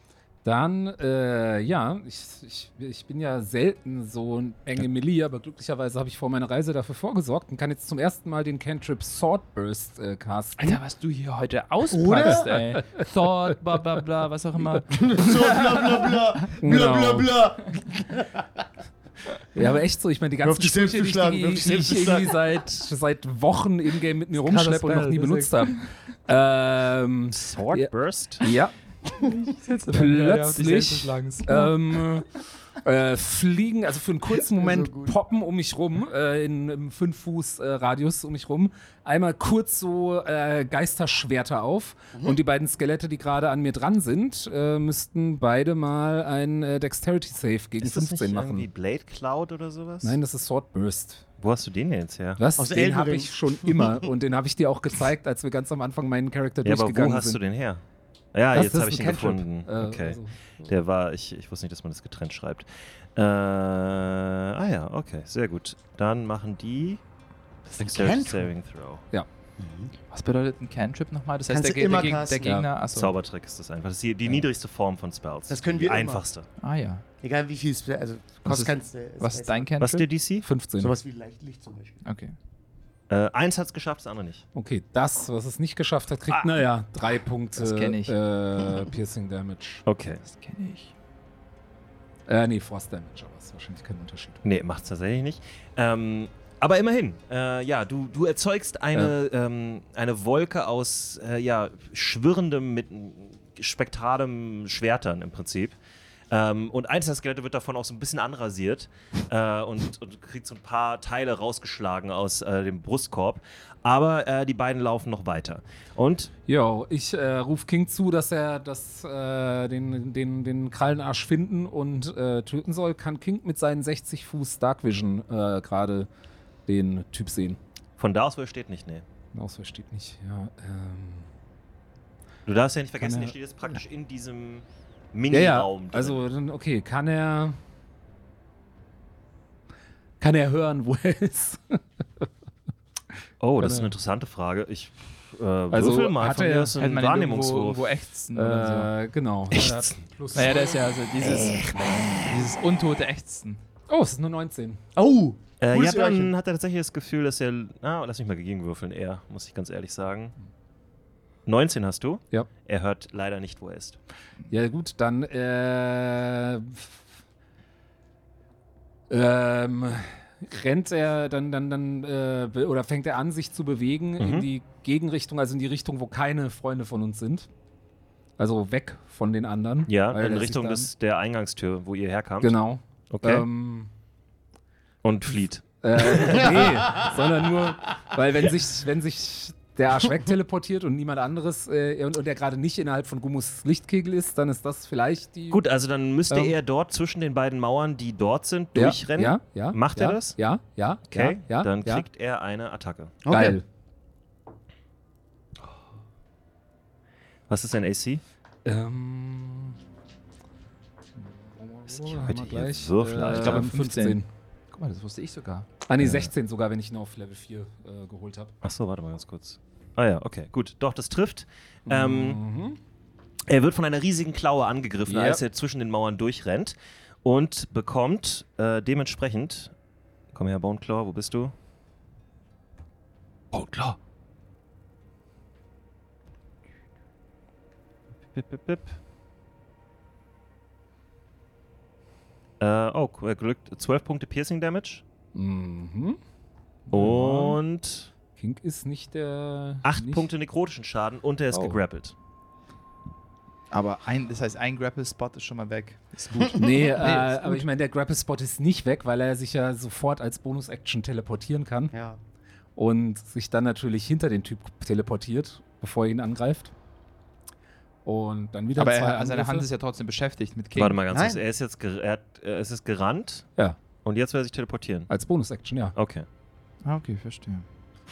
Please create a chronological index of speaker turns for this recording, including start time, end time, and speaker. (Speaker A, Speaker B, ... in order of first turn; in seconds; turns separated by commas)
Speaker A: 0.4-10.8, Speaker B: 10.6-15.8, Speaker C: 11.9-12.5, Speaker A: 12.3-13.0, Speaker C: 14.9-18.6, Speaker A: 16.6-17.4, Speaker A: 19.5-27.9, Speaker C: 20.4-22.4, Speaker B: 24.4-25.8, Speaker D: 27.3-28.5, Speaker A: 28.4-28.7, Speaker B: 29.1-31.8, Speaker A: 29.9-48.7, Speaker C: 34.4-35.1, Speaker D: 47.8-50.2, Speaker A: 50.0-51.2, Speaker D: 51.4-52.4, Speaker A: 52.4-57.4, Speaker C: 52.6-54.0, Speaker D: 56.6-57.8, Speaker D: 58.3-67.0, Speaker A: 58.5-60.7, Speaker D: 67.7-69.0, Speaker C: 67.8-68.5, Speaker C: 69.6-69.9, Speaker B: 70.1-73.1, Speaker C: 71.5-72.5, Speaker A: 72.4-72.7, Speaker D: 72.9-76.5, Speaker C: 75.5-76.2, Speaker B: 76.6-77.0, Speaker C: 77.2-79.7, Speaker B: 78.4-80.1, Speaker D: 79.8-80.5, Speaker A: 80.4-81.0, Speaker C: 80.8-82.0, Speaker B: 82.0-82.3, Speaker D: 83.1-84.4, Speaker A: 84.5-89.8, Speaker B: 87.6-88.2, Speaker D: 89.9-90.2, Speaker B: 90.2-90.9, Speaker A: 92.3-94.4, Speaker D: 94.4-105.8, Speaker D: 106.3-116.3, Speaker A: 116.5-126.1, Speaker A: 126.7-127.6, Speaker D: 128.0-129.1, Speaker A: 129.3-131.3, Speaker D: 132.5-136.2, Speaker A: 133.0-133.3, Speaker A: 135.3-137.6, Speaker A: 140.2-142.3, Speaker D: 143.4-147.9, Speaker A: 143.6-143.9, Speaker A: 145.7-146.8, Speaker B: 146.8-148.9, Speaker A: 148.3-150.9, Speaker D: 149.5-149.9, Speaker B: 150.3-153.6, Speaker D: 151.5-152.1, Speaker A: 153.9-154.8, Speaker C: 155.0-156.3, Speaker D: 155.6-160.3, Speaker D: 161.5-164.0, Speaker A: 164.5-167.0, Speaker A: 169.1-177.5, Speaker D: 174.2-174.5, Speaker A: 178.4-180.9, Speaker D: 179.9-182.6, Speaker A: 182.4-183.9, Speaker D: 183.1-183.5, Speaker D: 185.0-186.8, Speaker A: 185.8-195.6, Speaker C: 186.6-187.1, Speaker D: 195.5-200.4, Speaker A: 196.3-196.6, Speaker A: 198.8-202.1, Speaker D: 201.1-203.2, Speaker C: 203.2-203.6, Speaker A: 203.3-203.7, Speaker D: 207.5-208.2, Speaker A: 208.7-209.8, Speaker A: 211.2-214.3, Speaker D: 212.0-213.7, Speaker B: 213.3-214.2, Speaker B: 214.7-215.7, Speaker A: 215.9-218.5, Speaker D: 216.0-216.3, Speaker D: 218.6-222.4, Speaker A: 221.9-222.8, Speaker D: 223.5-229.7, Speaker A: 225.1-225.4, Speaker D: 230.3-231.5, Speaker D: 233.5-234.0, Speaker D: 238.3-239.0, Speaker D: 242.6-245.0, Speaker A: 245.3-246.2, Speaker A: 246.9-247.4, Speaker D: 246.9-248.1, Speaker B: 247.0-247.4, Speaker A: 248.4-250.3, Speaker D: 249.8-252.1, Speaker A: 251.5-251.8, Speaker B: 253.7-257.6, Speaker A: 256.4-261.9, Speaker C: 256.4-256.8, Speaker C: 261.9-262.2, Speaker A: 262.8-266.7, Speaker A: 268.1-269.7, Speaker B: 268.8-271.0, Speaker D: 270.8-273.5, Speaker C: 271.1-271.4, Speaker D: 274.0-275.1, Speaker A: 275.1-276.0, Speaker D: 276.0-276.3, Speaker B: 276.8-277.6